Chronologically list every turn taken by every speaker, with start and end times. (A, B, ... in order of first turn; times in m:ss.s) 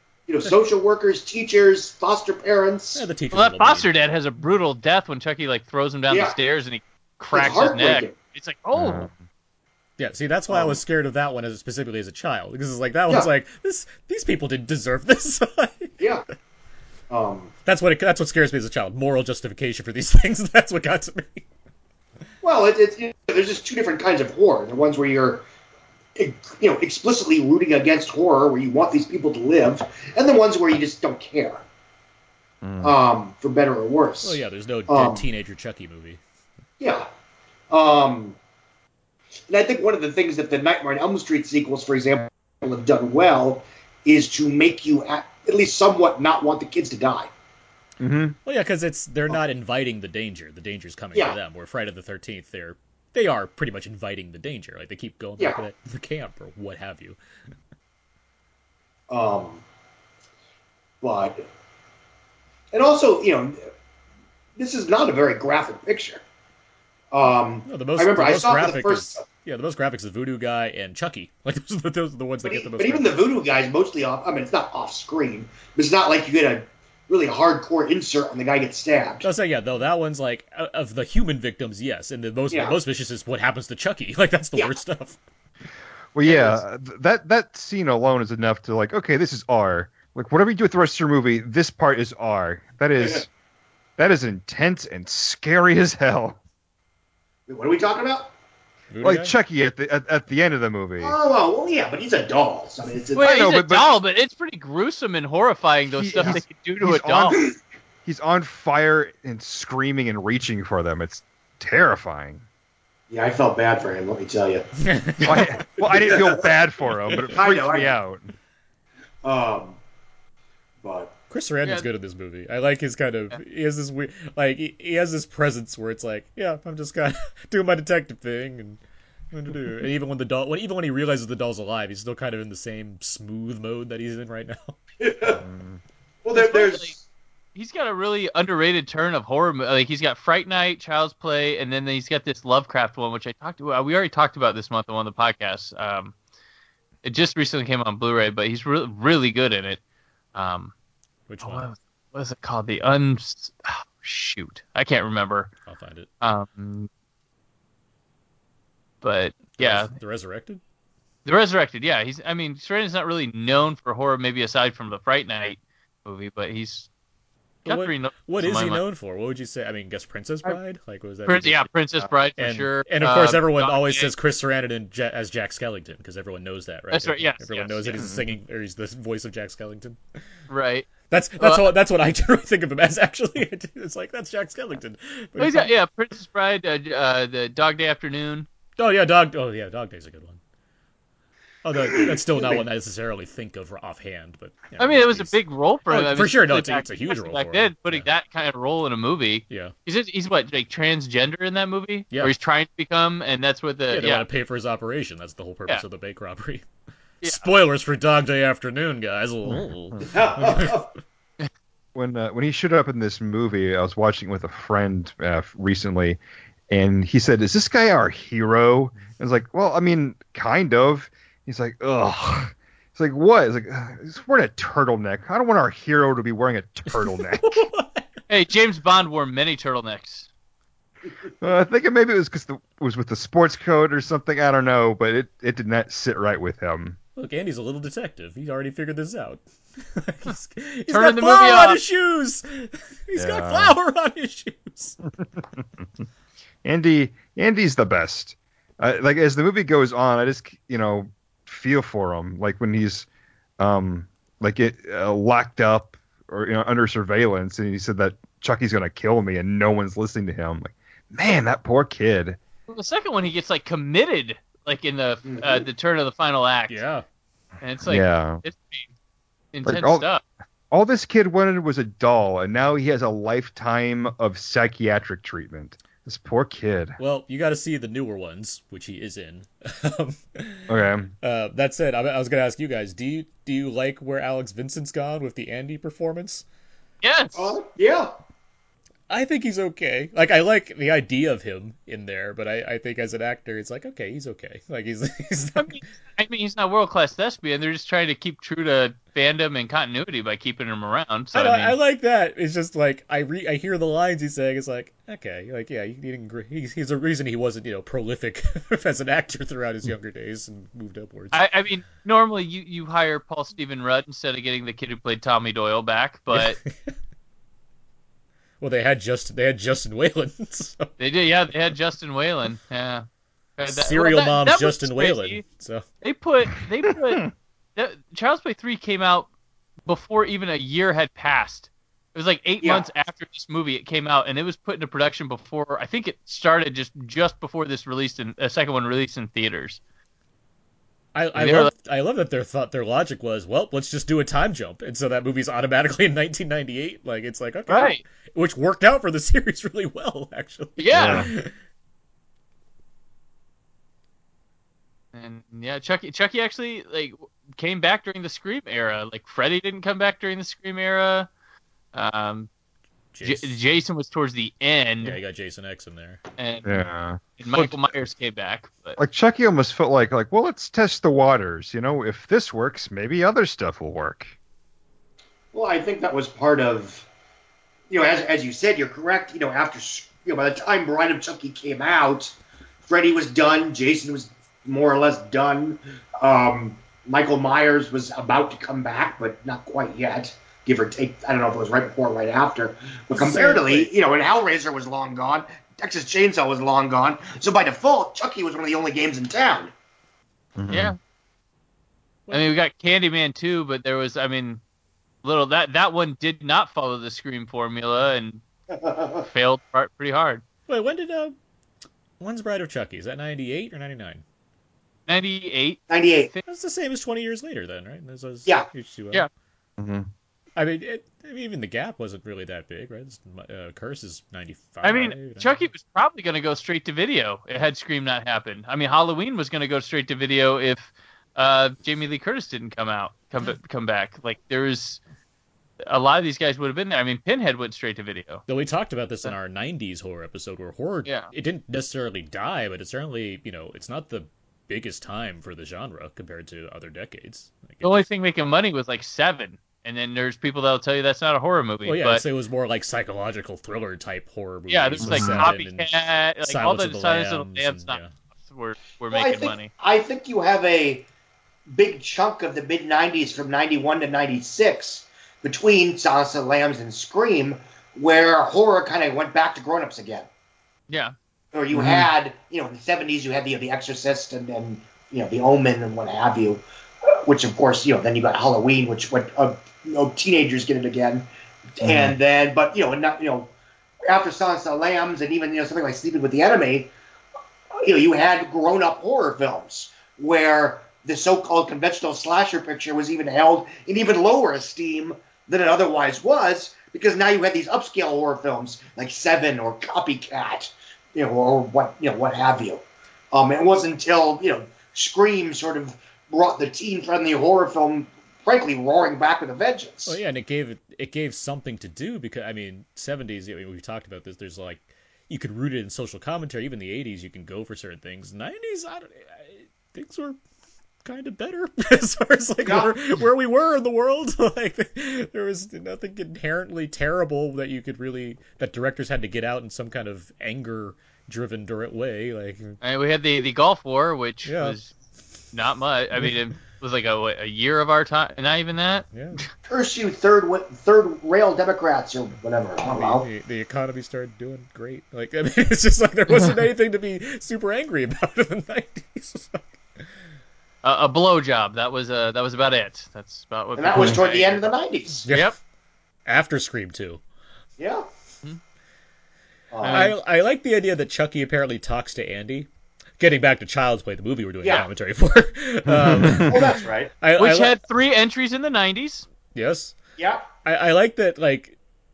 0:00.3-0:03.1 A
0:03.0-0:03.9 B
0:03.3-0:09.1 C
0:06.1-0:06.4 A
0:07.3-0:08.2 A
0:08.7-0:09.2 D
0:10.0-0:16.1 B
0:10.5-0:10.8 A
0:17.1-0:17.5 A
0:17.7-0:21.5 B
0:22.4-0:25.5 A
0:26.2-0:31.6 A
0:32.6-0:32.9 D
0:32.8-0:35.2 A
0:34.2-0:36.2 B
0:36.8-0:37.1 A
0:37.7-0:38.4 A
0:39.5-0:47.3 A
0:48.0-0:48.4 D
0:48.4-0:57.2 B
0:59.1-0:59.6 A
1:01.0-1:01.4 A
1:02.7-1:03.6 A
1:04.6-1:06.2 A
1:07.1-1:09.2 A
1:07.7-1:13.2 B
1:12.4-1:19.3 A
1:19.2-1:25.2 B
1:22.5-1:22.8 A
1:26.1-1:33.3 D
1:26.2-1:26.6 A
1:34.0-1:36.4 D
1:37.5-1:38.3 A
1:38.9-1:39.3 B
1:39.0-1:41.2 D
1:41.0-1:43.3 A
1:43.1-1:47.4 C
1:43.2-1:43.9 D
1:45.9-1:47.5 D
1:48.0-1:52.4 D
1:53.1-1:54.7 A
1:54.8-1:55.6 B
1:55.2-1:56.5 A
1:55.2-1:58.3 D
1:57.0-1:57.3 B
1:57.3-1:58.0 A
1:59.2-1:59.8 A
2:00.8-2:01.1 A
2:01.3-2:08.8 B
2:09.3-2:14.8 B
2:15.0-2:15.4 A
2:15.2-2:15.8 D
2:16.2-2:17.0 A
2:16.3-2:17.0 C
2:17.6-2:26.1 C
2:27.0-2:29.8 C
2:30.3-2:30.7 C
2:31.3-2:31.7 B
2:31.4-2:35.5 C
2:35.7-2:36.1 B
2:36.2-2:36.9 C
2:39.0-2:39.9 C
2:39.6-2:40.6 B
2:41.2-2:46.9 C
2:47.7-2:48.8 C
2:47.7-2:51.7 B
2:51.3-2:54.1 C
2:52.4-3:00.0 B
2:56.9-2:58.1 C
2:58.0-2:58.2 D
3:00.5-3:01.6 C
3:01.1-3:05.7 B
3:05.4-3:08.5 C
3:08.8-3:10.4 B
3:11.6-3:18.1 B
3:12.3-3:12.6 A
3:14.8-3:24.3 C
3:19.5-3:19.7 B
3:23.9-3:26.7 B
3:27.2-3:30.8 B
3:29.5-3:30.0 D
3:30.1-3:30.9 A
3:32.0-3:36.2 D
3:36.7-3:47.7 D
3:46.9-3:48.1 B
3:48.3-3:50.3 C
3:51.4-3:57.0 D
3:57.2-4:05.0 B
4:00.9-4:01.8 C
4:03.2-4:03.8 D
4:05.4-4:05.8 D
4:06.6-4:13.1 D
4:13.6-4:22.4 D
4:22.7-4:26.8 C
4:25.2-4:25.7 A
4:26.7-4:27.0 B
4:27.6-4:28.9 C
4:27.8-4:28.4 D
4:29.5-4:30.2 C
4:29.6-4:30.0 D
4:30.7-4:37.0 D
4:37.0-4:46.4 B
4:40.7-4:41.1 D
4:47.0-4:47.6 C
4:47.4-4:48.1 A
4:49.1-4:55.8 B
4:55.6-5:01.8 C
5:01.3-5:11.4 B
5:11.3-5:16.6 C
5:16.3-5:17.0 B
5:18.6-5:20.9 B
5:21.0-5:23.0 C
5:23.6-5:25.4 C
5:23.7-5:25.8 B
5:26.0-5:29.3 C
5:29.9-5:39.8 C
5:41.1-5:51.5 B
5:41.4-5:41.7 C
5:47.7-5:48.0 C
5:50.8-5:51.3 C
5:50.9-5:51.3 D
5:55.1-6:01.3 C
6:01.9-6:02.5 C
6:03.1-6:03.6 B
6:03.2-6:05.2 C
6:05.0-6:06.2 B
6:06.4-6:06.8 C
6:06.6-6:07.8 D
6:07.4-6:09.0 C
6:09.0-6:14.3 D
6:15.5-6:17.1 A
6:17.9-6:22.4 A
6:22.9-6:39.7 A
6:33.1-6:33.9 B
6:40.6-6:41.0 D
6:40.7-6:41.0 C
6:42.3-6:44.6 C
6:45.2-6:48.4 C
6:48.7-6:49.3 A
6:49.2-6:50.4 C
6:50.7-6:51.4 B
6:52.2-6:54.2 B
6:55.1-6:56.4 C
6:55.9-6:56.3 A
6:56.5-6:59.3 B
6:59.8-7:00.1 D
7:00.6-7:05.6 B
7:04.8-7:15.0 C
7:15.9-7:18.4 C
7:18.5-7:28.1 B
7:21.0-7:21.3 C
7:27.8-7:32.2 C
7:31.8-7:38.1 B
7:34.7-7:39.7 C
7:35.0-7:35.5 D
7:39.1-7:41.1 A
7:41.7-7:50.3 A
7:50.9-7:51.1 C
7:51.5-8:03.5 A
7:51.7-7:52.1 D
8:01.8-8:02.2 D
8:04.0-8:06.9 A
8:07.8-8:30.2 A
8:30.1-8:40.4 B
8:41.0-8:52.8 B
8:42.6-8:43.0 A
8:52.8-8:54.9 C
8:54.4-8:54.8 B
8:55.5-8:59.4 C
8:59.1-8:59.4 B
8:59.7-9:03.3 A
9:02.9-9:09.8 B
9:10.8-9:14.7 C
9:13.8-9:15.3 A
9:15.3-9:15.6 B
9:15.3-9:15.6 C
9:16.3-9:17.2 B
9:17.8-9:18.1 A
9:19.7-9:20.2 A
9:19.8-9:20.2 C
9:19.8-9:27.8 B
9:24.6-9:24.9 A
9:25.9-9:26.7 D
9:26.4-9:27.1 A
9:27.4-9:29.3 C
9:29.5-9:30.0 B
9:30.2-9:30.5 A
9:30.6-9:31.8 B